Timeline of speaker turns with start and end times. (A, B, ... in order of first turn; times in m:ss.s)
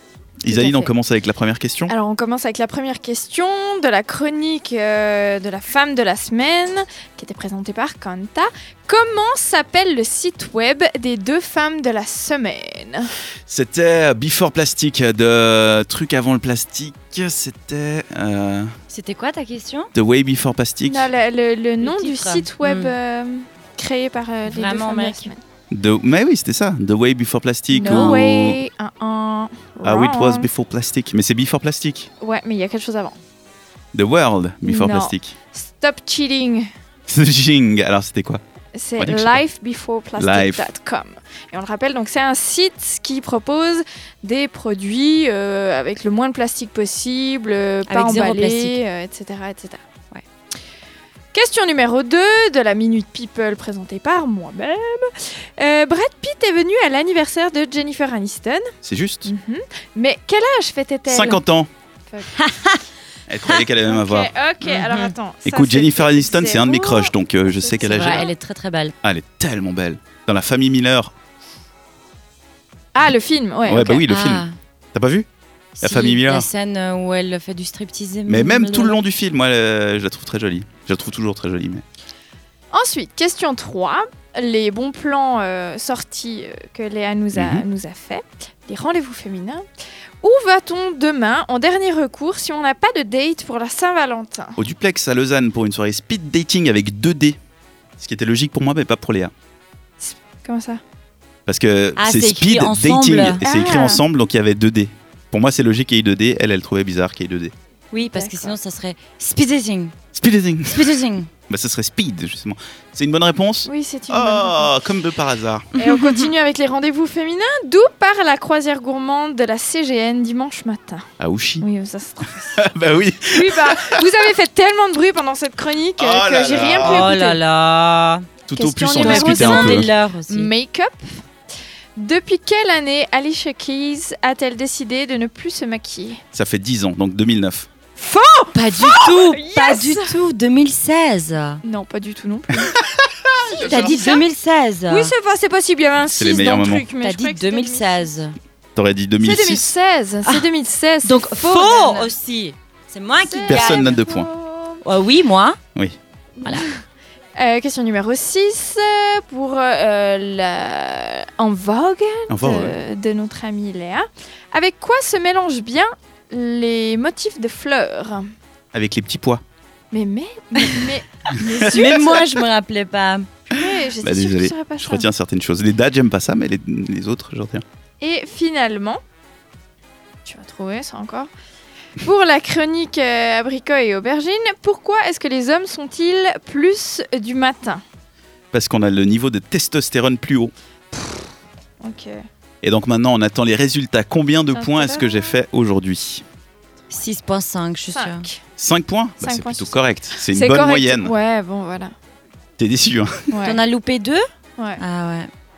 0:00.4-0:01.9 A
0:00.5-0:00.9 B
0:01.9-0:13.1 B
0:13.5-0:18.7 A
0:18.9-0:19.9 C
0:19.9-0:21.1 A
0:20.9-0:25.4 B
0:21.8-0:22.9 C
0:24.5-0:25.3 C
0:25.7-0:28.6 A
0:27.7-0:30.5 B
0:27.7-0:28.2 C
0:29.8-0:32.1 A
0:32.2-0:33.2 B
0:33.9-0:35.4 A
0:34.6-0:36.7 B
0:37.1-0:38.4 A
0:38.8-0:49.8 B
0:39.0-0:39.4 A
0:40.2-0:40.7 A
0:47.9-0:48.8 C
0:51.3-0:58.7 B
0:58.8-0:59.3 A
0:59.2-1:01.4 B
1:01.1-1:01.7 A
1:02.1-1:02.4 B
1:02.4-1:02.8 C
1:03.3-1:04.3 A
1:03.8-1:08.3 B
1:04.6-1:05.1 C
1:05.5-1:08.3 A
1:07.8-1:08.9 C
1:09.0-1:11.1 A
1:12.9-1:13.9 B
1:13.7-1:15.3 A
1:13.8-1:14.5 C
1:15.8-1:19.0 C
1:15.8-1:16.5 A
1:18.3-1:21.8 A
1:22.7-1:29.7 B
1:27.3-1:27.6 A
1:30.2-1:34.6 B
1:34.6-1:37.4 A
1:38.0-1:39.3 A
1:40.0-1:40.8 B
1:41.5-1:47.5 A
1:42.0-1:43.4 C
1:43.4-1:44.0 B
1:47.9-1:50.0 C
1:48.0-1:48.6 B
1:50.1-1:50.9 A
1:50.7-1:51.3 C
1:51.5-1:55.7 A
1:53.7-1:54.8 B
1:55.8-2:01.1 B
1:55.8-1:56.3 C
2:01.2-2:01.6 A
2:01.6-2:02.6 B
2:02.6-2:04.0 A
2:03.3-2:07.4 B
2:06.0-2:07.1 A
2:06.8-2:08.3 C
2:08.5-2:09.9 A
2:08.6-2:11.2 B
2:08.9-2:10.5 C
2:12.0-2:16.2 B
2:16.3-2:17.7 A
2:18.0-2:20.2 B
2:18.5-2:21.6 C
2:21.6-2:22.7 B
2:23.3-2:24.1 A
2:23.5-2:24.2 B
2:23.6-2:25.1 C
2:24.9-2:28.1 B
2:26.1-2:26.9 A
2:27.0-2:28.4 C
2:28.8-2:29.7 A
2:29.2-2:32.1 B
2:31.0-2:34.0 C
2:33.2-2:34.8 B
2:33.5-2:34.3 A
2:34.8-2:35.6 C
2:36.4-2:36.7 B
2:36.4-2:36.7 C
2:37.4-2:48.3 B
2:42.3-2:42.8 A
2:48.7-2:49.4 A
2:49.9-2:52.2 B
2:51.3-2:52.3 A
2:51.6-2:53.3 C
2:53.5-2:55.1 B
2:54.0-2:57.6 A
2:58.0-2:59.0 B
3:00.2-3:01.3 B
3:02.0-3:07.8 B
3:08.5-3:10.5 A
3:11.8-3:12.2 B
3:12.6-3:16.2 A
3:14.5-3:15.4 B
3:16.9-3:18.3 C
3:17.9-3:18.4 B
3:18.6-3:21.1 A
3:19.2-3:21.9 B
3:22.6-3:23.3 A
3:23.3-3:23.6 B
3:23.4-3:24.2 C
3:24.8-3:25.3 C